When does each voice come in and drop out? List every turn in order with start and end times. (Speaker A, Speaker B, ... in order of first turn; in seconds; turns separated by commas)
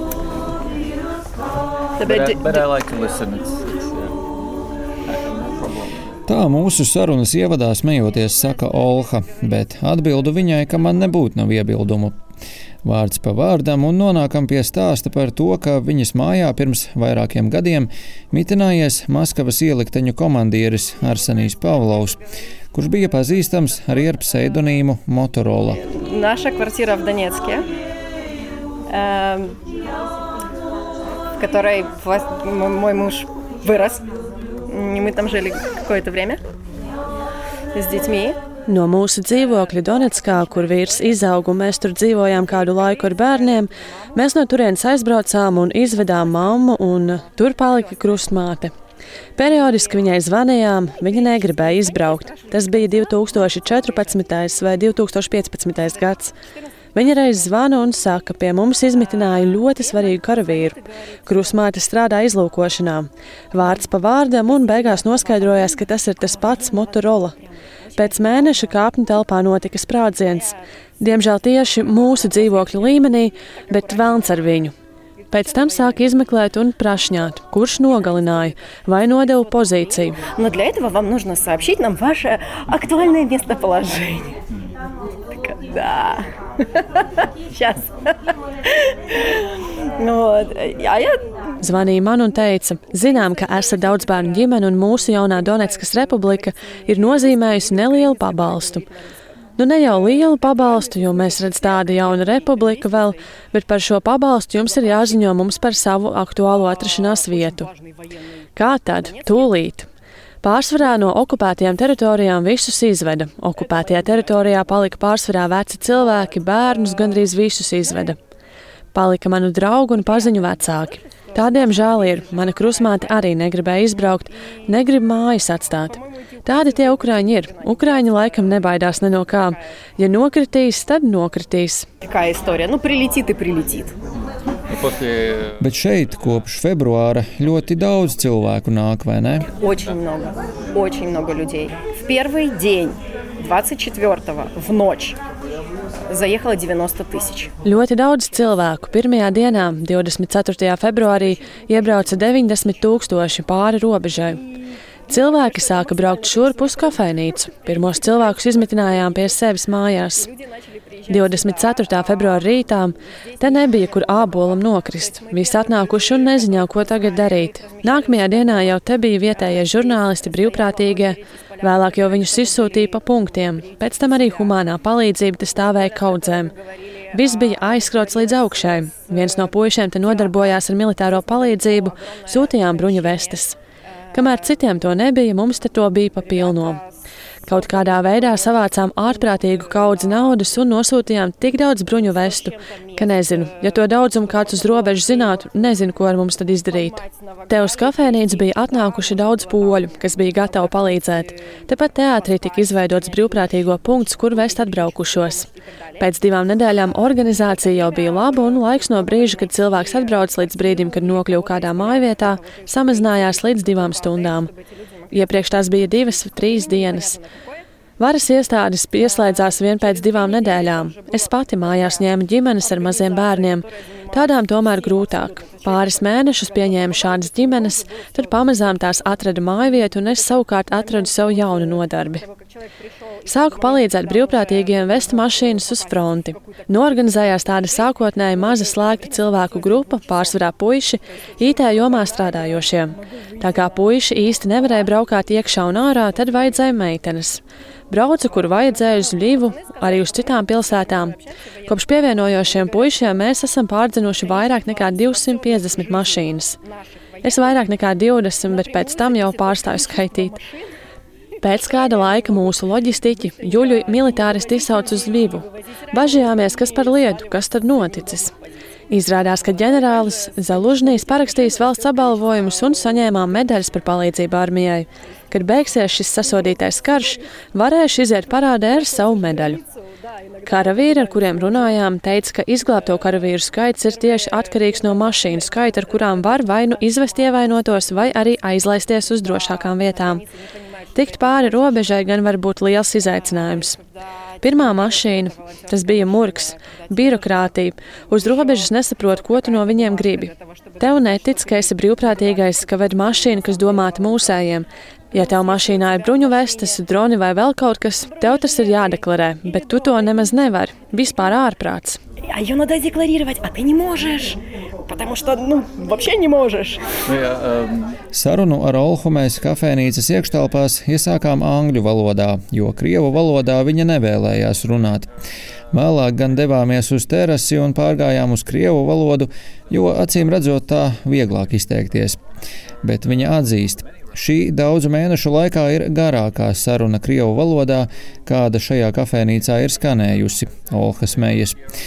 Speaker A: 2.0-2.6, Speaker B: 2.0-4.1, Speaker B: 5.1-6.0, Speaker C: 6.2-12.1, Speaker C: 12.8-22.2, Speaker C: 22.7-25.8, Speaker A: 25.7-27.6, Speaker A: 28.9-29.6, Speaker A: 31.4-34.0, Speaker A: 34.7-36.4, Speaker A: 37.7-38.4, Speaker D: 38.7-48.7, Speaker D: 49.4-56.3, Speaker D: 56.9-67.3, Speaker D: 68.0-74.7, Speaker D: 75.3-80.2, Speaker A: 80.3-84.4, Speaker A: 85.3-89.4, Speaker A: 90.0-91.2, Speaker D: 91.6-98.8, Speaker D: 99.6-107.7, Speaker D: 108.6-109.9, Speaker D: 110.4-118.2, Speaker D: 118.9-131.9, Speaker A: 132.0-133.9, Speaker B: 134.7-135.5, Speaker C: 135.6-139.5, Speaker A: 139.6-145.2, Speaker A: 146.1-147.5, Speaker D: 147.6-154.4, Speaker D: 155.1-160.3, Speaker D: 161.1-176.5, Speaker D: 177.1-183.6, Speaker D: 184.1-186.8, Speaker D: 187.4-205.5, Speaker D: 206.0-214.5, Speaker D: 215.1-217.2, Speaker D: 218.0-232.2, Speaker D: 233.3-256.6, Speaker D: 257.2-260.4, Speaker D: 261.4-268.3, Speaker D: 268.9-279.6, Speaker D: 280.4-290.2, Speaker D: 290.9-293.8, Speaker D: 294.4-312.0, Speaker A: 312.3-316.8, Speaker B: 317.1-317.9, Speaker C: 318.1-325.1, Speaker C: 325.7-332.2, Speaker C: 332.8-341.6